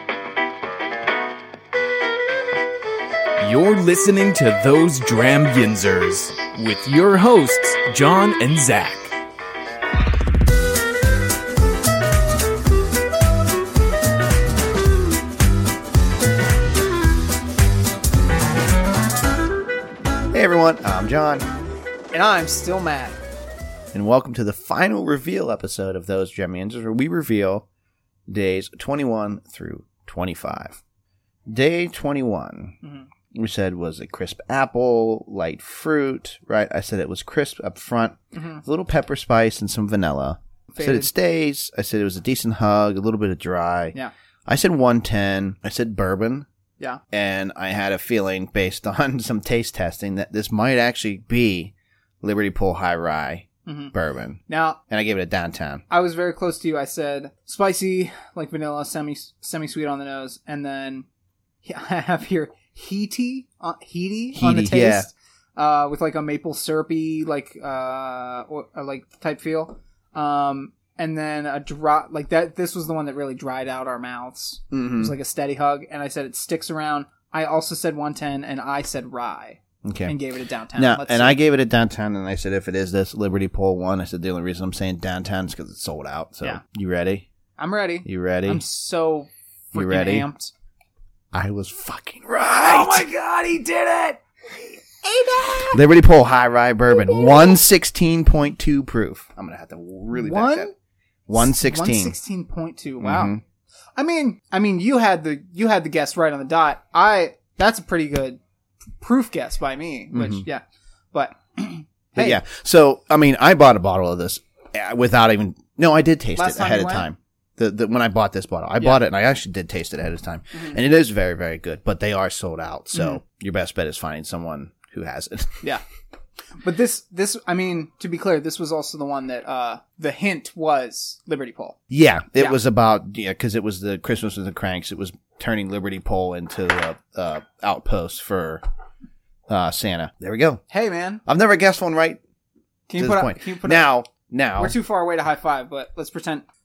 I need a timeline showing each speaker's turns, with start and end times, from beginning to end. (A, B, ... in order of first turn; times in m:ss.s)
0:03.4-0:09.1 A
0:20.3-0:21.5 B
0:22.1-0:23.2 C
0:23.9-0:27.6 B
0:28.3-0:30.8 B
0:31.5-0:32.8 B
0:32.8-0:33.1 C
0:33.3-0:43.9 B
0:38.3-0:38.6 C
0:40.7-0:41.1 C
0:44.5-0:46.4 B
0:47.1-0:55.8 B
0:53.6-0:53.9 C
0:54.5-0:54.8 C
0:55.9-1:01.0 C
1:01.6-1:21.4 C
1:04.3-1:05.1 B
1:14.7-1:15.2 B
1:19.8-1:20.2 B
1:20.7-1:27.3 B
1:27.6-1:30.5 C
1:28.0-1:28.6 B
1:29.7-1:30.3 B
1:31.3-1:33.1 B
1:32.5-1:35.8 C
1:35.7-1:40.7 B
1:36.9-1:37.6 C
1:40.1-1:40.7 C
1:41.3-1:42.2 B
1:41.3-1:43.4 C
1:43.0-1:43.4 B
1:44.0-1:48.4 C
1:49.0-1:52.4 C
1:50.1-1:50.4 B
1:52.2-2:05.6 B
1:56.4-1:57.1 C
2:02.9-2:03.2 C
2:06.6-2:11.8 C
2:11.9-2:18.6 B
2:19.5-2:20.6 B
2:20.7-2:21.2 C
2:21.2-2:22.2 B
2:22.9-2:23.8 C
2:23.0-2:24.7 B
2:24.6-2:26.4 C